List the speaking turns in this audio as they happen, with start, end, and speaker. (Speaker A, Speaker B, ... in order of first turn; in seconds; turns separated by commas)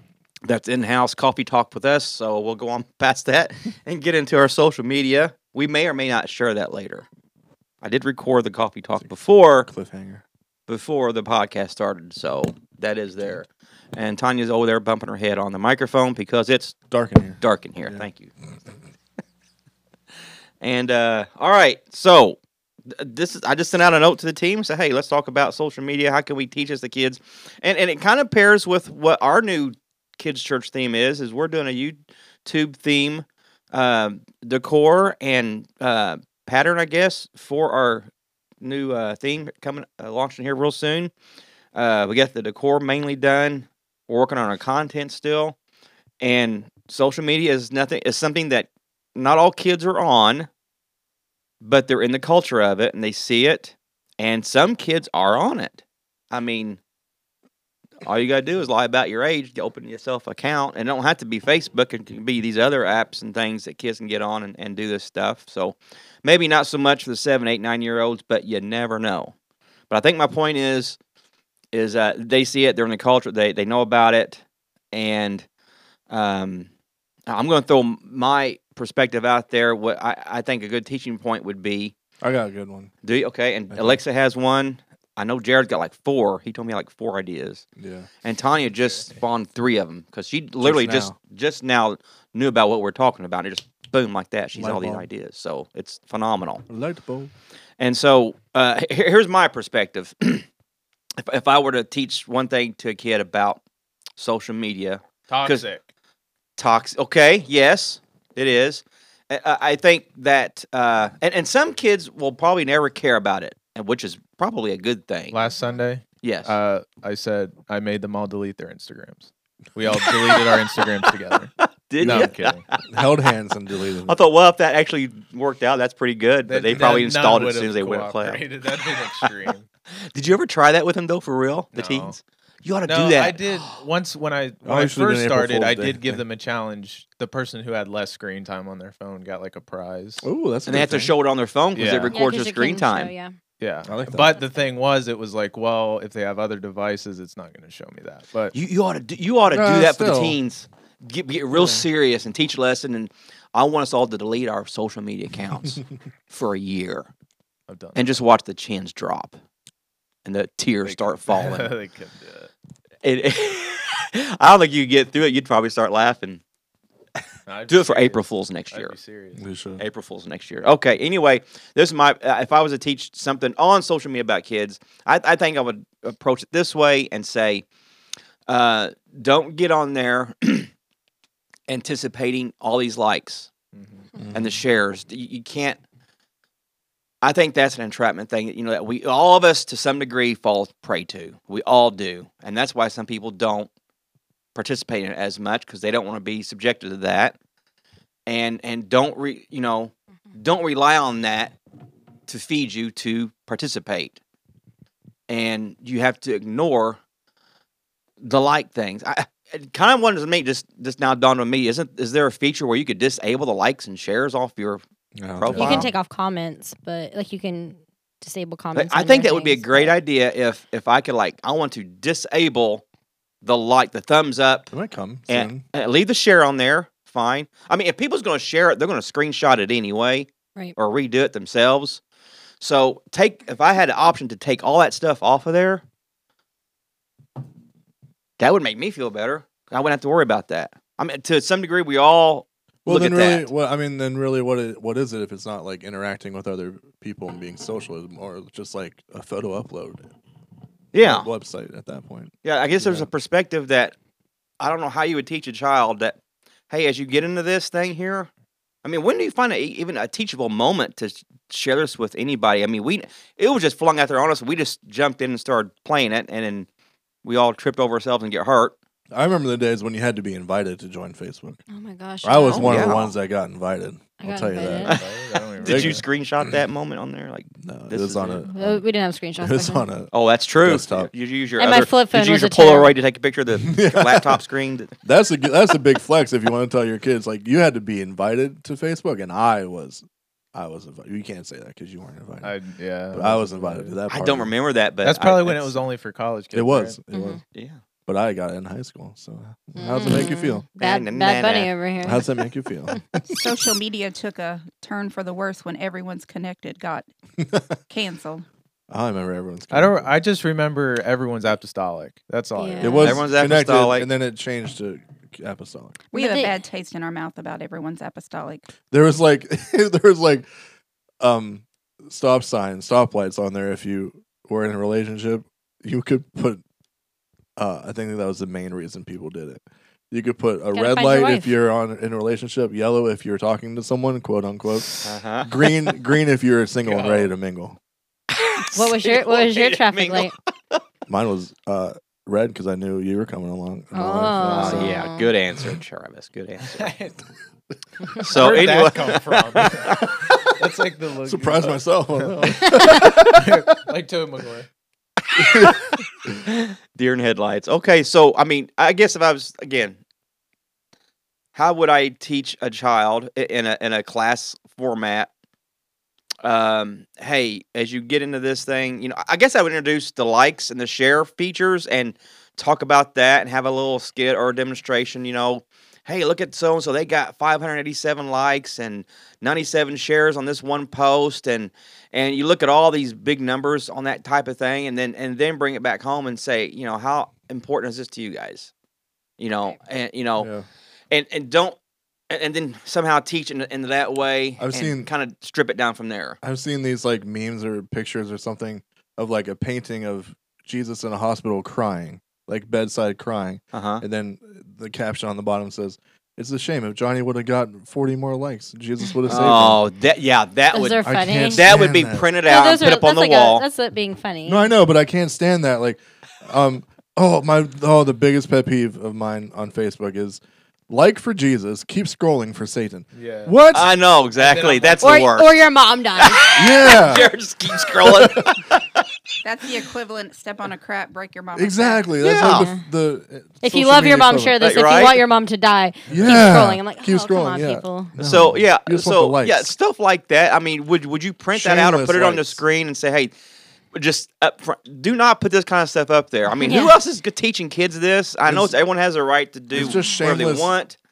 Speaker A: 0.4-7.1, Speaker A: 7.8-9.7, Speaker B: 9.0-10.2, Speaker A: 10.7-16.8, Speaker B: 16.9-18.1, Speaker A: 17.4-18.3, Speaker A: 20.6-38.1, Speaker A: 38.6-41.1, Speaker A: 41.7-45.6, Speaker A: 46.2-50.5, Speaker A: 51.6-56.8, Speaker A: 58.0-69.3, Speaker A: 69.9-71.0, Speaker A: 71.7-75.5, Speaker A: 76.1-76.7, Speaker A: 77.3-82.0, Speaker B: 82.2-82.9, Speaker A: 83.0-87.6, Speaker B: 83.7-84.0, Speaker B: 87.8-88.1, Speaker A: 88.2-96.6, Speaker B: 90.6-91.2, Speaker B: 94.5-95.1, Speaker B: 96.7-97.3, Speaker A: 97.8-100.5, Speaker A: 101.2-103.6, Speaker A: 104.2-105.7, Speaker C: 105.3-105.8, Speaker A: 106.6-115.4, Speaker C: 115.3-122.7, Speaker A: 116.2-116.5, Speaker A: 121.9-122.8, Speaker B: 122.0-122.3, Speaker B: 122.9-124.2, Speaker A: 124.1-128.4, Speaker C: 126.5-129.7, Speaker A: 130.1-133.6, Speaker C: 131.7-132.2, Speaker C: 132.9-140.3, Speaker B: 134.6-136.2, Speaker B: 140.2-141.1, Speaker A: 140.7-143.1, Speaker C: 141.7-142.2, Speaker D: 142.1-143.3, Speaker C: 143.6-148.5, Speaker B: 143.8-144.4, Speaker A: 148.5-157.1, Speaker B: 149.5-150.4, Speaker B: 151.5-151.8, Speaker C: 157.7-158.2, Speaker A: 158.0-159.4, Speaker A: 160.3-161.7, Speaker C: 160.8-162.5, Speaker A: 163.0-166.4, Speaker C: 167.5-169.4, Speaker A: 167.7-169.0, Speaker B: 169.3-169.8, Speaker A: 169.8-177.7, Speaker A: 178.5-180.7, Speaker A: 181.7-183.5, Speaker C: 183.7-184.1, Speaker B: 184.2-184.6, Speaker A: 184.3-185.8, Speaker A: 187.2-193.7, Speaker A: 194.6-197.4, Speaker A: 198.3-201.6, Speaker A: 202.3-204.2, Speaker A: 205.3-207.0, Speaker A: 208.2-214.8, Speaker B: 215.2-215.9, Speaker A: 215.3-215.9, Speaker D: 215.5-219.9, Speaker A: 218.8-222.8, Speaker A: 223.4-224.7, Speaker B: 224.7-225.7, Speaker A: 225.3-232.0, Speaker A: 232.6-235.8, Speaker A: 238.4-243.5, Speaker B: 242.8-250.1, Speaker A: 250.9-251.3, Speaker B: 251.0-253.1, Speaker A: 252.4-253.9, Speaker A: 254.6-256.2, Speaker A: 256.7-258.3, Speaker A: 258.8-266.7, Speaker A: 267.2-268.8, Speaker B: 269.1-271.6, Speaker D: 271.7-273.0, Speaker B: 272.2-275.0, Speaker A: 272.6-273.1, Speaker D: 274.2-275.0, Speaker C: 274.9-276.0, Speaker B: 275.6-276.6, Speaker A: 275.6-278.5, Speaker B: 277.6-278.8, Speaker D: 278.5-279.9, Speaker B: 279.4-281.1, Speaker A: 280.1-284.9, Speaker D: 281.6-282.9, Speaker B: 283.6-284.4, Speaker B: 285.0-292.5, Speaker C: 292.4-294.0, Speaker B: 293.1-294.5, Speaker A: 294.1-295.8, Speaker C: 295.0-297.0, Speaker B: 296.5-297.4, Speaker D: 297.1-297.4, Speaker B: 298.1-300.6, Speaker D: 299.8-302.3, Speaker A: 300.8-301.7, Speaker B: 302.0-303.4, Speaker E: 303.3-307.1, Speaker B: 307.4-307.7, Speaker E: 307.9-308.5, Speaker B: 308.9-310.1, Speaker C: 309.7-313.2, Speaker D: 312.6-313.1, Speaker B: 312.8-316.0, Speaker A: 313.0-314.1, Speaker D: 316.1-316.6, Speaker E: 316.1-318.6, Speaker B: 318.9-320.5, Speaker B: 321.2-326.6, Speaker B: 327.6-337.8, Speaker D: 330.7-331.5, Speaker A: 335.0-335.5, Speaker C: 336.8-337.3, Speaker A: 338.3-340.8, Speaker D: 338.7-340.4, Speaker B: 341.1-344.9, Speaker D: 343.9-345.3, Speaker A: 344.5-346.9, Speaker C: 346.7-347.2, Speaker A: 348.2-350.1, Speaker C: 348.2-354.7, Speaker B: 351.2-353.6, Speaker B: 355.4-356.0, Speaker A: 355.4-360.0, Speaker A: 361.6-365.3, Speaker A: 366.4-388.7, Speaker A: 389.4-390.5, Speaker B: 390.4-390.6, Speaker A: 391.1-391.8, Speaker A: 392.3-396.4, Speaker B: 394.6-395.1, Speaker B: 396.4-409.8, Speaker A: 403.7-404.0, Speaker A: 409.3-413.6, Speaker D: 410.7-411.7, Speaker B: 411.0-412.3, Speaker D: 412.5-414.7, Speaker B: 414.5-423.9, Speaker C: 423.1-423.6, Speaker A: 423.7-425.6, Speaker C: 424.4-425.2, Speaker D: 425.0-426.4, Speaker A: 426.2-429.1, Speaker B: 426.5-427.3, Speaker B: 428.0-428.5, Speaker E: 429.4-432.2, Speaker B: 431.5-434.6, Speaker D: 432.2-432.8, Speaker A: 432.3-432.7, Speaker D: 433.6-438.1, Speaker A: 434.6-435.3, Speaker B: 436.1-439.7, Speaker A: 436.1-436.4, Speaker A: 438.2-443.3, Speaker B: 441.5-442.6, Speaker A: 443.9-451.0, Speaker D: 446.5-446.9, Speaker B: 448.4-448.8, Speaker B: 449.7-450.8